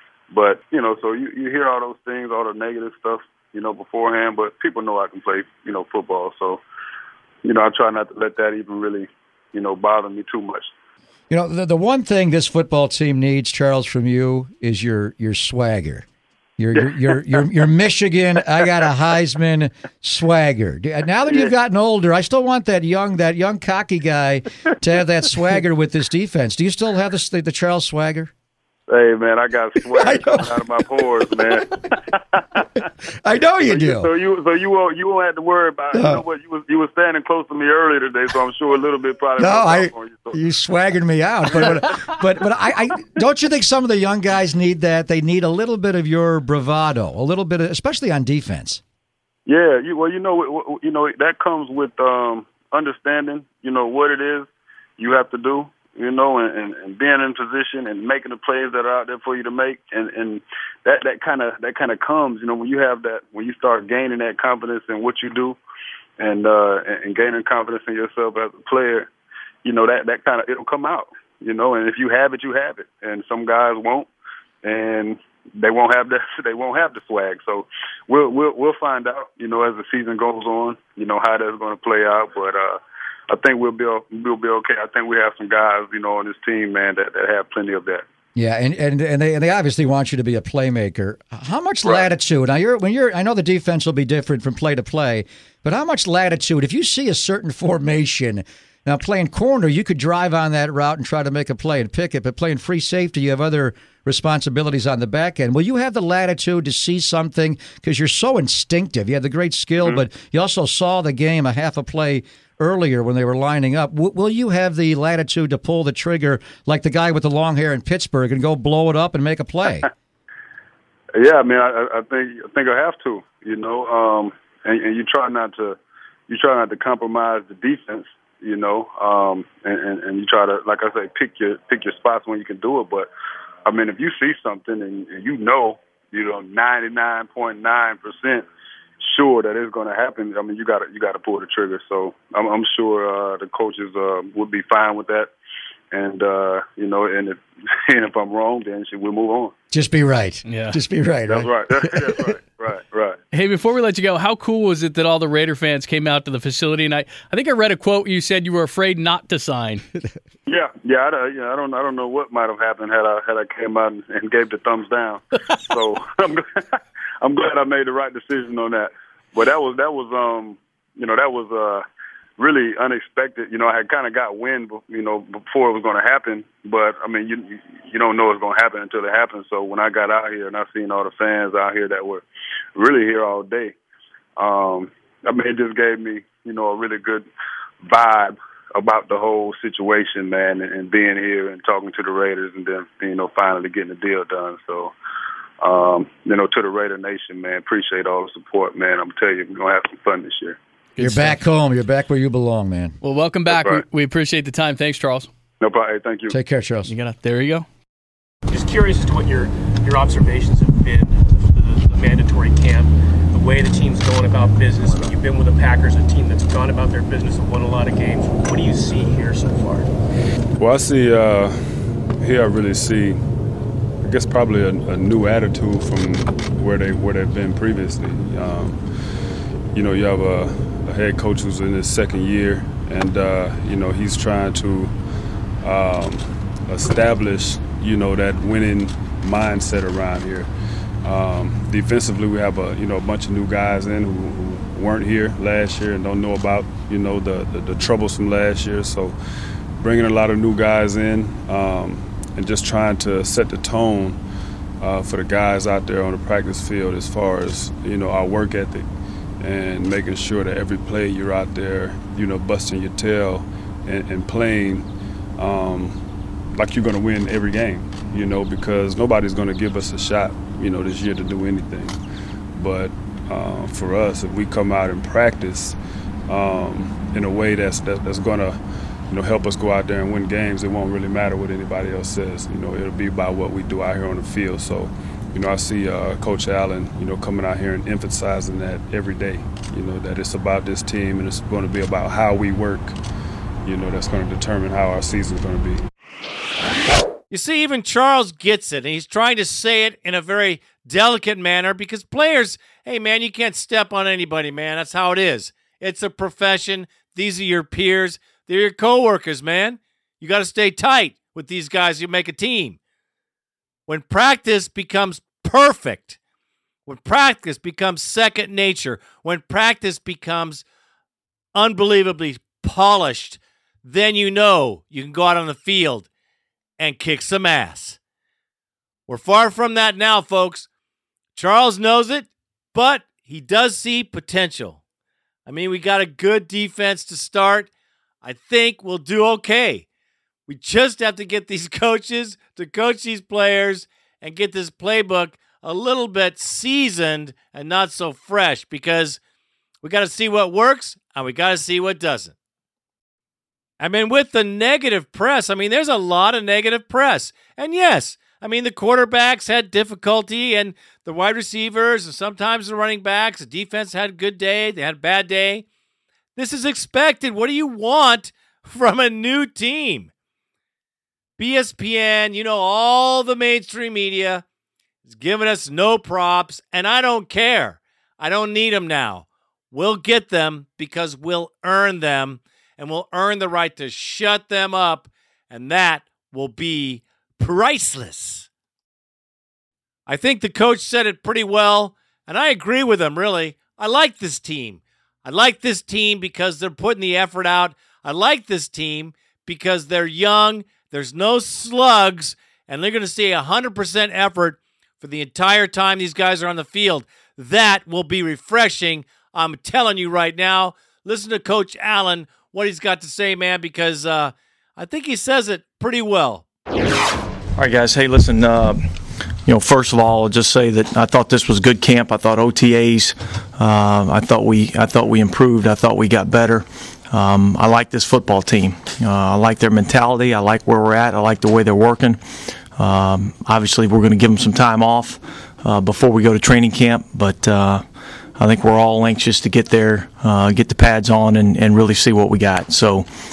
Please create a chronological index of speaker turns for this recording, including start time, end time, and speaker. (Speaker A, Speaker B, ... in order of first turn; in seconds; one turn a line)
Speaker A: 0.3-6.6
Speaker A: 7.4-10.7
Speaker B: 11.3-16.1
Speaker B: 16.6-28.3
Speaker A: 28.9-32.6
Speaker B: 29.9-30.6
Speaker B: 33.2-34.1
Speaker A: 33.6-40.4
Speaker B: 35.9-36.2
Speaker B: 39.4-48.8
Speaker A: 49.5-65.6
Speaker A: 66.2-69.1
Speaker A: 69.6-74.1
Speaker A: 74.6-88.0
Speaker B: 88.3-119.9
Speaker A: 121.1-125.8
Speaker A: 126.3-133.1
Speaker A: 133.7-138.4
Speaker A: 139.0-145.3
Speaker A: 145.9-149.5
Speaker B: 149.7-152.3
Speaker C: 150.5-150.8
Speaker A: 151.3-153.2
Speaker C: 153.3-159.8
Speaker A: 160.5-166.4
Speaker A: 167.2-171.8
Speaker A: 172.4-182.2
Speaker A: 182.8-183.7
Speaker A: 184.4-187.3
Speaker A: 187.8-194.9
Speaker A: 195.6-200.6
Speaker C: 200.9-201.4
Speaker B: 201.0-202.9
Speaker C: 203.0-205.3
Speaker A: 203.5-203.8
Speaker A: 205.6-206.3
Speaker B: 206.3-206.9
Speaker C: 206.8-207.7
Speaker D: 208.5-219.9
Speaker E: 220.6-223.2
Speaker E: 224.0-234.9
Speaker E: 235.6-249.2
Speaker E: 249.8-254.2
Speaker E: 254.8-258.9
Speaker E: 259.4-272.0
Speaker E: 272.5-275.8
Speaker E: 276.3-293.0
Speaker E: 293.6-295.8
Speaker F: 297.3-312.8
Speaker F: 313.9-316.2
Speaker F: 316.9-320.6
Speaker F: 321.5-326.1
Speaker F: 326.8-328.0
Speaker F: 329.1-330.7
Speaker F: 331.3-334.8
Speaker F: 335.5-337.7
Speaker F: 338.2-339.9
Speaker F: 340.5-349.2
Speaker F: 349.8-352.3
Speaker F: 353.8-365.6
Speaker F: 366.4-370.1
Speaker F: 371.4-374.4
Speaker F: 375.1-388.5
Speaker F: 390.1-416.5
Speaker G: 417.6-418.8
Speaker G: 419.4-432.2
Speaker G: 432.8-437.8
Speaker G: 438.4-443.1